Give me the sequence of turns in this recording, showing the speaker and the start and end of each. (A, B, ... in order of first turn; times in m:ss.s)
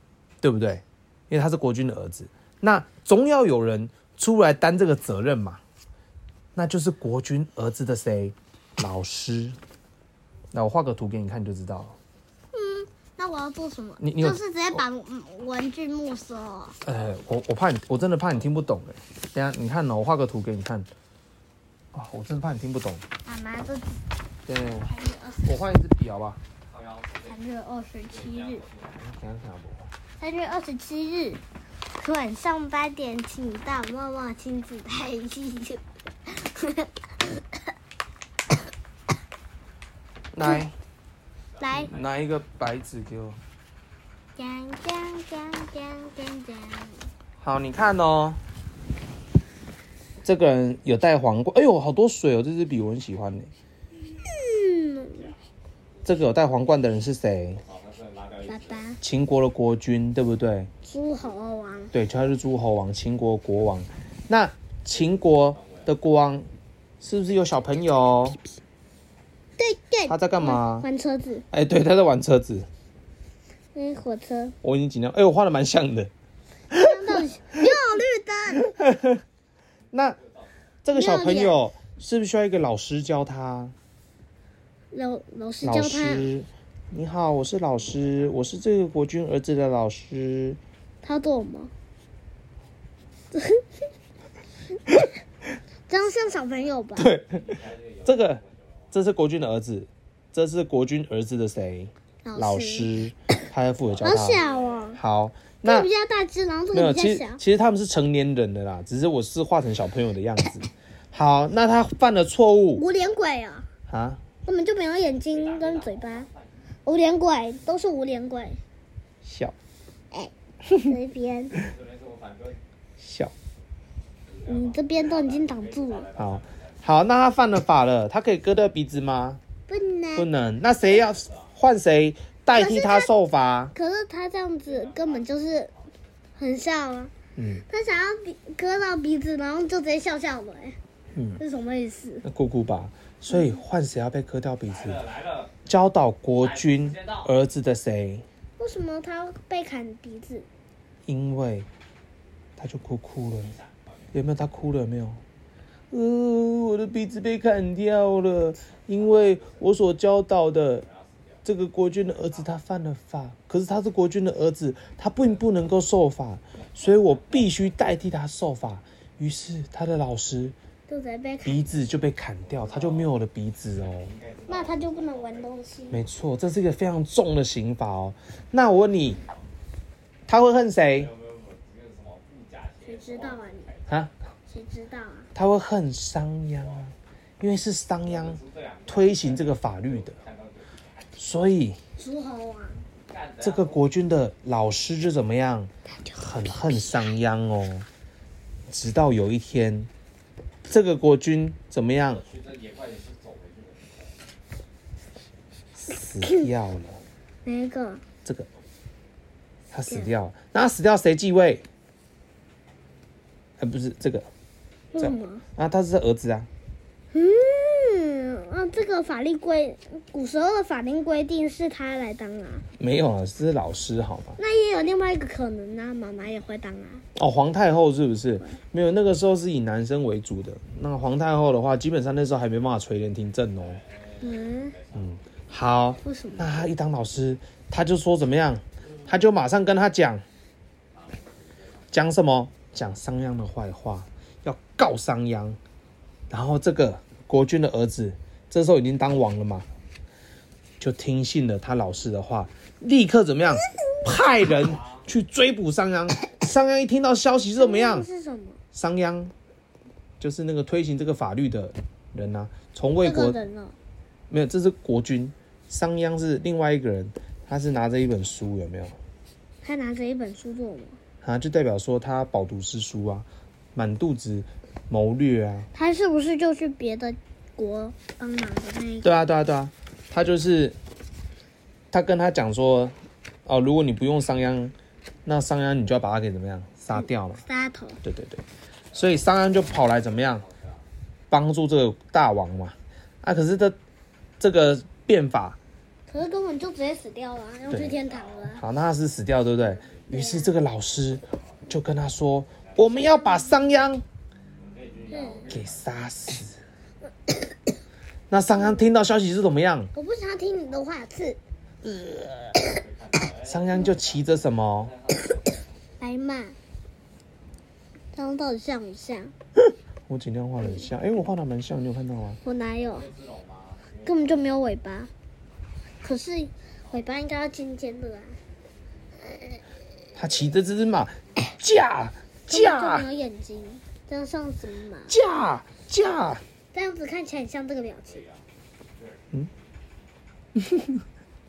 0:00.4-0:05.6 A
0:06.6-0:09.6 A
0:10.5-0:12.0 A
0:12.5-0:16.8 B
0:14.0-0:14.8 A
0:16.8-0:20.9 A
0:21.9-0:23.0 A
0:23.2-0:24.0 B
0:24.5-0:24.9 A
0:24.6-0:25.5 B
0:25.4-0:26.4 A
0:27.2-0:28.7 B
0:29.0-0:29.9 A
0:30.2-0:31.4 B
0:32.0-0:37.4 B
0:40.3-0:40.7 A
0:41.6-0:41.9 B
0:41.8-0:43.4 A
0:44.4-0:47.1 B
0:47.4-0:48.4 A
0:50.2-0:53.5 A
0:54.2-0:55.3 B
0:56.0-0:57.6 A
0:58.4-0:59.0 B
0:59.0-1:00.7 A
1:00.8-1:01.9 B
1:01.9-1:06.5 A
1:07.0-1:08.4 A
1:09.6-1:11.5 B
1:10.1-1:10.9 A
1:11.5-1:12.7 A
1:13.7-1:14.6 B
1:14.6-1:16.1 A
1:16.7-1:17.2 A
1:16.7-1:18.8 B
1:18.8-1:19.2 A
1:19.9-1:20.2 A
1:20.8-1:23.7 A
1:20.9-1:21.6 B
1:24.9-1:26.3 B
1:25.6-1:30.6 A
1:31.0-1:31.7 B
1:33.3-1:33.6 B
1:35.9-1:37.1 B
1:37.0-1:45.9 A
1:42.2-1:43.0 B
1:44.0-1:45.0 B
1:45.6-1:47.4 B
1:46.7-1:52.8 A
1:52.8-1:53.7 B
1:53.9-1:54.2 A
1:54.4-1:56.3 B
1:56.8-1:58.6 B
1:59.2-1:59.6 A
2:00.1-2:01.6 B
2:01.8-2:02.6 C
2:03.0-2:03.3 A
2:04.4-2:06.1 B
2:06.2-2:09.4 A
2:09.7-2:10.3 B
2:10.2-2:13.7 A
2:12.5-2:13.1 B
2:13.7-2:15.7 B
2:16.4-2:17.1 B
2:17.4-2:17.6 A
2:17.7-2:20.8 B
2:21.2-2:21.4 A
2:21.4-2:22.2 B
2:22.2-2:28.2 A
2:23.3-2:23.6 B
2:28.6-2:30.5 B
2:31.1-2:31.7 A
2:32.6-2:33.6 A
2:34.1-2:35.2 A
2:35.9-2:40.9 A
2:41.4-2:50.6 A
2:50.9-2:51.8 B
2:51.4-2:54.1 A
2:54.5-2:56.0 B
2:55.9-2:59.2 A
3:00.3-3:01.1 A
3:01.3-3:02.6 C
3:02.8-3:03.8 B
3:04.5-3:05.3 B
3:05.4-3:10.2 A
3:08.4-3:08.8 C
3:11.2-3:11.8 A
3:12.0-3:12.8 B
3:13.4-3:17.9 A
3:16.0-3:16.8 B
3:18.7-3:19.9 A
3:20.7-3:22.2 A
3:22.3-3:23.9 C
3:25.9-3:27.0 A
3:27.4-3:28.0 B
3:29.7-3:31.6 A
3:33.6-3:34.3 A
3:34.9-3:35.4 B
3:35.0-3:36.5 A
3:37.1-3:42.6 B
3:42.8-3:44.4 A
3:44.4-3:47.0 B
3:47.2-3:53.8 A
3:54.2-3:54.8 B
3:55.0-4:00.2 A
3:56.0-3:56.6 B
4:01.9-4:05.6 A
4:06.3-4:09.7 A
4:10.8-4:18.1 A
4:17.6-4:18.6 B
4:18.7-4:19.3 A
4:20.2-4:23.4 A
4:23.0-4:23.8 B
4:24.3-4:29.0 A
4:29.6-4:31.0 B
4:31.2-4:35.7 A
4:35.7-4:39.3 B
4:39.0-4:40.8 A
4:41.9-4:44.7 A
4:45.3-4:47.4 A
4:47.0-4:48.0 B
4:48.0-4:48.4 A
4:48.9-4:50.5 A
4:51.3-4:53.8 A
4:54.4-4:55.6 A
4:56.1-4:58.6 B
4:57.7-4:58.0 A
4:58.5-5:04.0 A
4:59.6-5:00.6 B
5:03.0-5:03.8 B
5:05.1-5:05.5 B
5:05.5-5:06.6 A
5:08.3-5:09.9 A
5:08.6-5:08.8 B
5:09.9-5:12.8 B
5:13.4-5:15.0 A
5:16.0-5:16.6 B
5:18.1-5:19.3 B
5:20.1-5:22.4 A
5:22.4-5:23.1 B
5:23.1-5:24.0 C
5:24.0-5:25.1 B
5:26.0-5:28.4 B
5:30.2-5:33.1 A
5:32.5-5:35.1 B
5:35.1-5:36.4 A
5:36.7-5:38.3 B
5:40.6-5:41.0 A